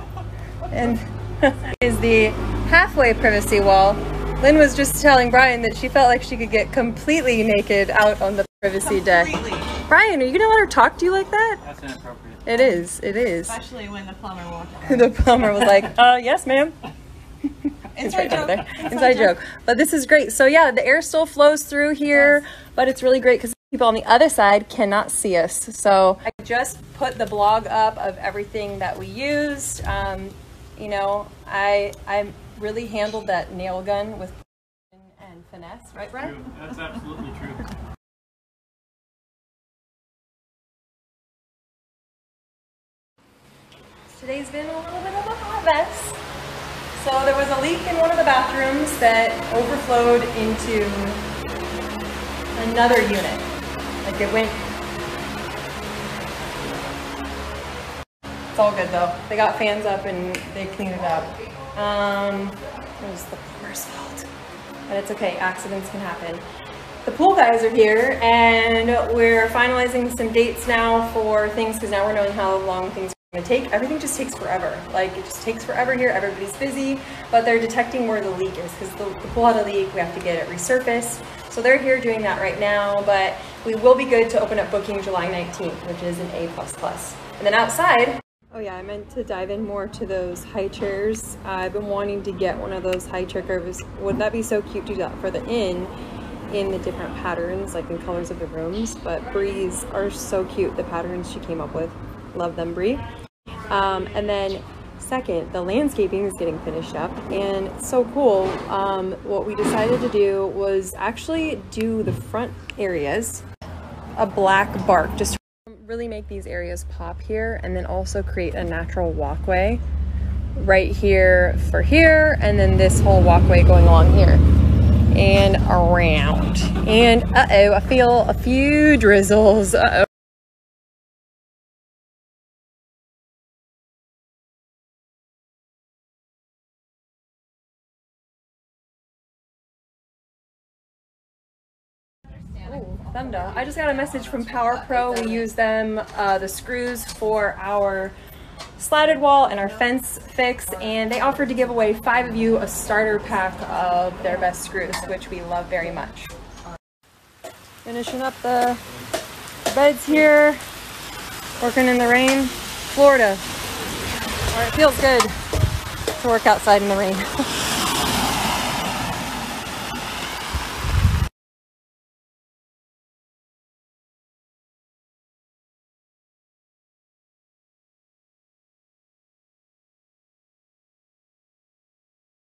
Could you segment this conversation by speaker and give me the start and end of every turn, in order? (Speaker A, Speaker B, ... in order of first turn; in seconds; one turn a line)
Speaker A: 0.7-11.6
Speaker B: 8.8-9.7
Speaker C: 11.6-12.5
Speaker A: 12.4-13.6
Speaker B: 12.5-15.1
Speaker A: 14.9-16.8
Speaker A: 17.5-36.4
Speaker B: 17.9-19.3
Speaker B: 22.1-22.4
Speaker C: 36.2-37.7
Speaker A: 44.1-46.2
Speaker A: 46.9-51.2
Speaker A: 52.5-53.5
Speaker A: 54.0-54.6
Speaker A: 58.5-64.3
Speaker A: 64.9-66.4
Speaker A: 67.0-95.9
Speaker A: 96.5-103.0
Speaker A: 103.7-113.4
Speaker A: 114.2-119.8
Speaker A: 120.5-124.4
Speaker A: 125.1-130.1
Speaker B: 142.6-144.4
Speaker A: 142.6-148.2
Speaker A: 148.8-156.3
Speaker A: 157.8-158.8
Speaker A: 159.7-160.6
Speaker A: 161.6-163.4
Speaker A: 164.5-165.3
Speaker A: 166.2-167.4